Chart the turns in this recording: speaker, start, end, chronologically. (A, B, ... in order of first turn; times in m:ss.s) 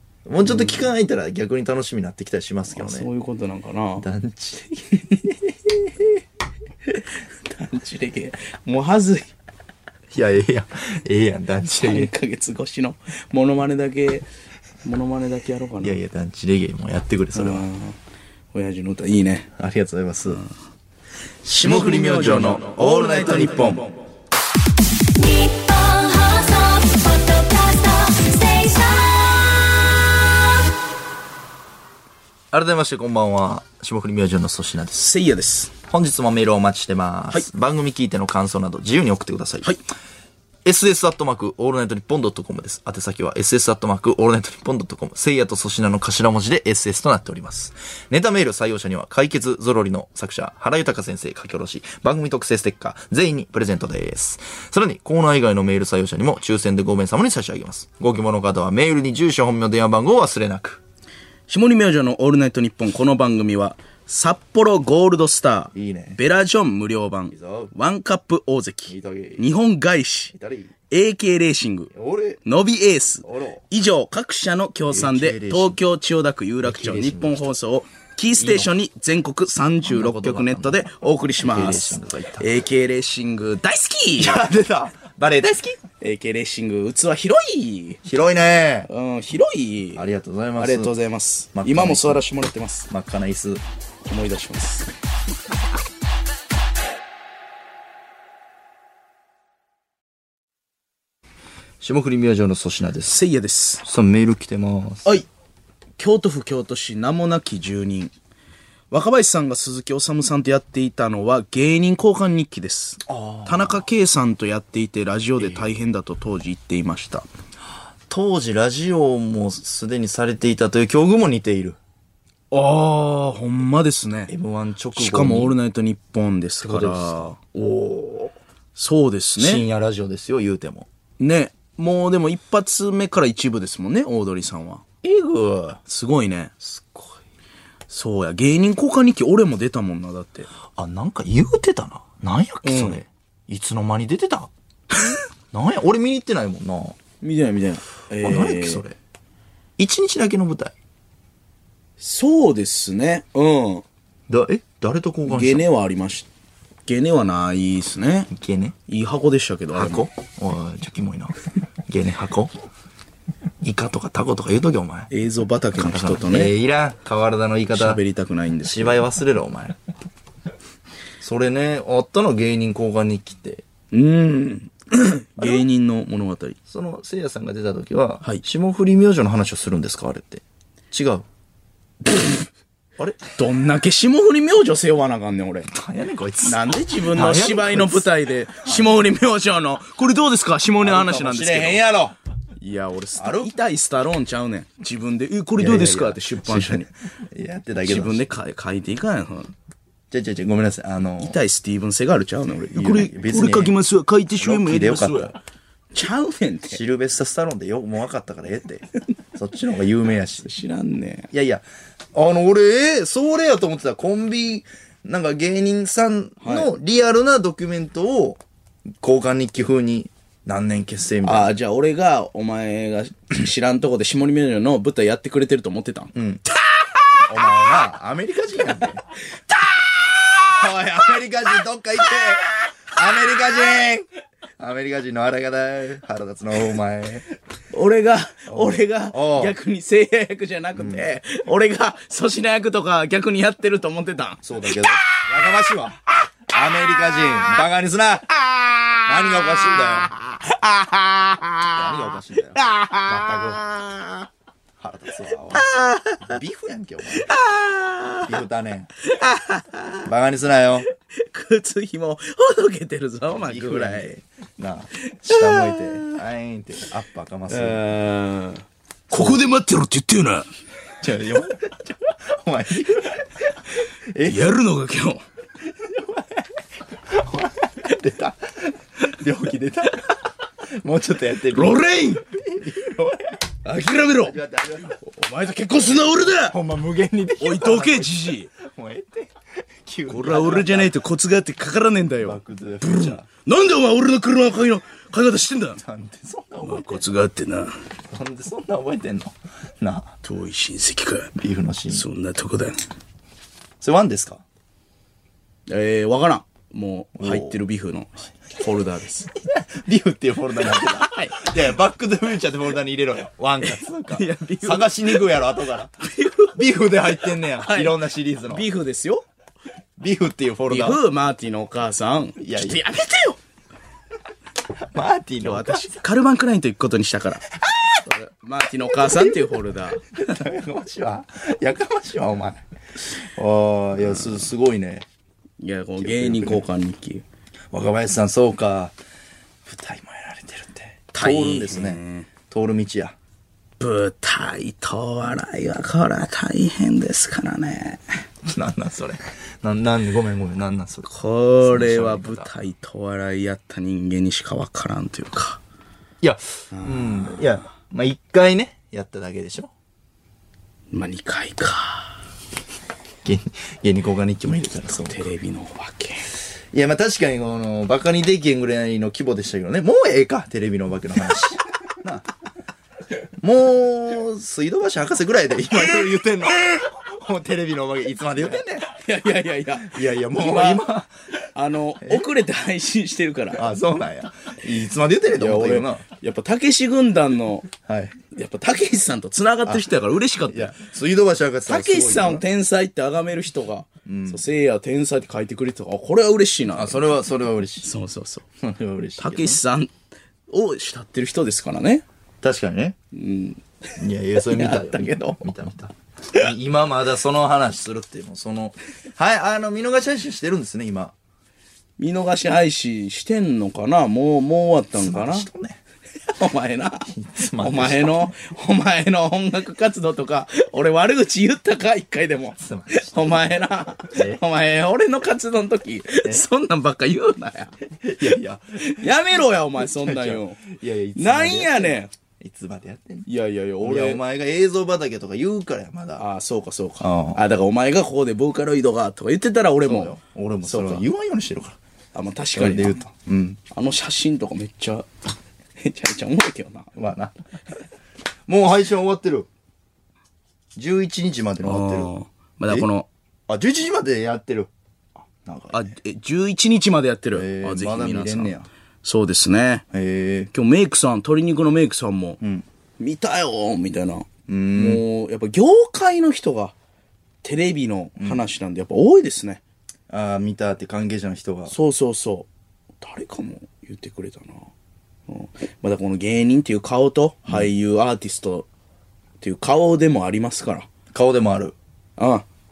0:00.2-0:03.1 A
0:00.4-0:00.9 B
0:02.7-0:04.0 B
0:04.0-0:05.7 A
0:06.8-0:09.3 B
0:10.1-0:12.1 A
0:11.8-0:14.3 B
0:14.8-0:16.0 B
0:15.8-0:17.6 A
0:17.3-0:18.0 B
0:18.5-0:19.5 B
0:19.6-0:20.4 A
0:21.4-0:23.9 A
0:21.5-0:23.9 B
0:25.1-0:29.7 C
0:32.5-0:35.0 A
0:34.9-0:35.7 B
0:35.9-0:39.8 A
0:40.6-1:00.8 A
1:01.5-1:10.3 B
1:05.7-1:06.2 A
1:07.3-1:07.7 A
1:08.9-1:09.5 A
1:10.3-1:10.7 A
1:10.9-1:11.9 B
1:11.9-1:12.4 A
1:12.4-1:24.5 B
1:13.2-1:13.6 A
1:14.9-1:15.8 A
1:16.6-1:17.4 A
1:18.4-1:18.7 A
1:19.8-1:20.8 A
1:21.4-1:22.5 A
1:24.2-1:25.8 A
1:26.0-1:28.0 B
1:28.0-1:28.9 A
1:28.9-1:30.0 B
1:29.9-1:30.9 A
1:30.6-1:32.9 B
1:31.5-1:32.2 A
1:32.9-1:33.6 A
1:34.0-1:34.9 B
1:41.8-1:43.2 A
1:43.1-1:43.8 B
1:43.8-1:45.2 A
1:46.0-1:48.1 B
1:48.9-1:57.3 B
1:53.0-1:53.8 A
1:55.4-1:55.6 A
1:58.1-2:01.8 A
2:02.5-2:04.3 B
2:04.3-2:05.6 A
2:04.9-2:07.3 B
2:06.6-2:08.3 A
2:08.7-2:09.6 B
2:09.4-2:10.9 A
2:11.2-2:14.8 B
2:15.0-2:15.8 A
2:15.9-2:16.5 B
2:16.6-2:17.2 A
2:17.9-2:20.5 B
2:20.7-2:24.5 A
2:22.6-2:23.0 B
2:25.5-2:27.0 A
2:27.2-2:28.8 B
2:28.2-2:29.0 A
2:29.8-2:30.7 A
2:32.0-2:33.8 B
2:34.3-2:35.6 A
2:35.2-2:36.3 B
2:36.8-2:38.3 B
2:38.3-2:38.8 A
2:38.9-2:40.1 B
2:39.7-2:41.3 A
2:41.9-2:42.5 A
2:43.6-2:45.1 A
2:45.1-2:46.5 B
2:45.7-2:48.0 A
2:47.7-2:49.0 B
2:48.6-2:49.8 A
2:51.2-2:53.6 A
2:53.9-2:56.6 B
2:56.7-3:01.2 A
3:03.0-3:03.2 A
3:03.4-3:05.7 B
3:05.7-3:08.0 A
3:06.4-3:11.9 B
3:08.6-3:08.9 A
3:10.8-3:12.1 A
3:12.6-3:16.9 B
3:13.2-3:13.5 A
3:15.6-3:18.3 A
3:17.8-3:19.5 B
3:20.1-3:21.4 A
3:21.2-3:25.3 B
3:22.7-3:23.7 A
3:24.4-3:25.4 A
3:25.9-3:26.8 B
3:26.7-3:30.5 A
3:30.4-3:31.3 B
3:31.3-3:38.4 A
3:36.4-3:36.7 B
3:39.0-3:41.5 A
3:41.2-3:46.1 B
3:46.1-3:46.4 A
3:47.2-3:49.1 A
3:49.3-3:50.5 B
3:50.5-3:54.0 A
3:54.6-3:57.3 A
3:57.7-4:04.9 B
3:58.5-3:59.6 A
4:00.8-4:01.1 A
4:04.4-4:08.4 A
4:06.9-4:07.6 B
4:08.4-4:14.3 B
4:09.0-4:10.1 A
4:11.7-4:13.6 A
4:14.8-4:17.3 A
4:15.5-4:16.4 B
4:17.2-4:18.4 B
4:18.2-4:18.9 A
4:19.0-4:20.1 B
4:20.0-4:20.9 A
4:21.0-4:24.1 B
4:23.4-4:27.8 A
4:25.2-4:26.1 B
4:27.5-4:30.5 B
4:29.1-4:29.4 A
4:31.0-4:33.3 A
4:34.1-4:34.5 A
4:34.2-4:35.2 B
4:35.8-4:36.4 A
4:37.1-4:40.1 A
4:40.8-4:43.4 A
4:41.5-4:42.2 B
4:43.6-4:44.4 B
4:44.2-4:45.0 A
4:44.9-4:46.6 B
4:46.5-4:49.3 A
4:47.4-4:48.5 B
4:49.8-4:51.0 A
4:50.1-4:55.8 B
4:52.2-4:53.3 A
4:55.8-4:57.1 A
4:56.6-4:57.8 B
4:58.1-5:00.1 A
5:00.2-5:01.4 B
5:01.4-5:02.0 A
5:01.9-5:02.8 B
5:03.8-5:04.4 A
5:05.7-5:09.3 B
5:07.2-5:07.6 A
5:09.4-5:15.9 A
5:10.6-5:11.4 B
5:13.6-5:15.4 B
5:16.0-5:16.6 B
5:16.5-5:18.6 A
5:17.6-5:19.2 B
5:20.0-5:21.0 A
5:20.7-5:23.4 B
5:22.4-5:22.8 A
5:24.9-5:25.9 A
5:25.4-5:27.4 B
5:27.6-5:28.0 A
5:28.0-5:30.0 B
5:28.9-5:35.0 A
5:34.0-5:34.5 B
5:35.6-5:37.2 B
5:36.0-5:36.6 A
5:37.7-5:38.9 A
5:39.6-5:43.1 A
5:41.1-5:42.3 B
5:43.8-5:48.2 B
5:48.4-5:52.5 A
5:51.1-5:55.6 B
5:56.2-5:59.7 A
5:56.7-5:57.5 B
6:00.9-6:02.2 B
6:03.2-6:05.2 A
6:04.9-6:06.3 B
6:06.7-6:12.3 A
6:13.4-6:18.9 A
6:18.5-6:20.8 B
6:19.8-6:21.1 A
6:21.5-6:23.6 B
6:23.5-6:26.0 A
6:25.3-6:27.7 B
6:27.8-6:28.2 A
6:28.3-6:30.8 B
6:30.5-6:32.4 A
6:31.7-6:37.2 B
6:34.0-6:34.4 A
6:36.7-6:37.9 A
6:37.8-6:38.4 B
6:38.6-6:39.6 A
6:39.2-6:39.9 B
6:40.5-6:42.0 B
6:42.4-6:43.0 A
6:43.1-6:43.6 B
6:44.0-6:51.1 A
6:44.3-6:45.4 B
6:52.0-6:55.5 B
6:55.0-6:55.8 A
6:56.3-7:08.3 B
6:57.1-6:58.1 A
7:02.6-7:04.4 A
7:08.0-7:13.3 A
7:08.8-7:12.1 B
7:13.2-7:14.2 B
7:13.8-7:16.2 A
7:16.2-7:21.0 B
7:17.0-7:17.4 A
7:19.8-7:21.8 A
7:22.1-7:23.0 B
7:22.5-7:23.6 A
7:23.7-7:25.1 B
7:25.8-7:26.9 B
7:26.9-7:27.3 A
7:28.5-7:29.5 A
7:30.8-7:32.1 A
7:31.6-7:33.1 B
7:33.5-7:34.7 A
7:35.3-7:35.8 A
7:35.7-7:39.8 B
7:37.3-7:38.7 A
7:39.9-7:40.5 A
7:40.5-7:42.4 B
7:43.0-7:46.7 B
7:44.5-7:45.0 A
7:47.4-7:49.6 B
7:48.2-7:48.4 A
7:50.1-7:51.7 A
7:51.7-7:52.5 B
7:53.0-7:54.7 B
7:55.3-7:58.7 B
7:59.4-8:00.9 B
8:01.1-8:01.7 A
8:02.2-8:02.4 B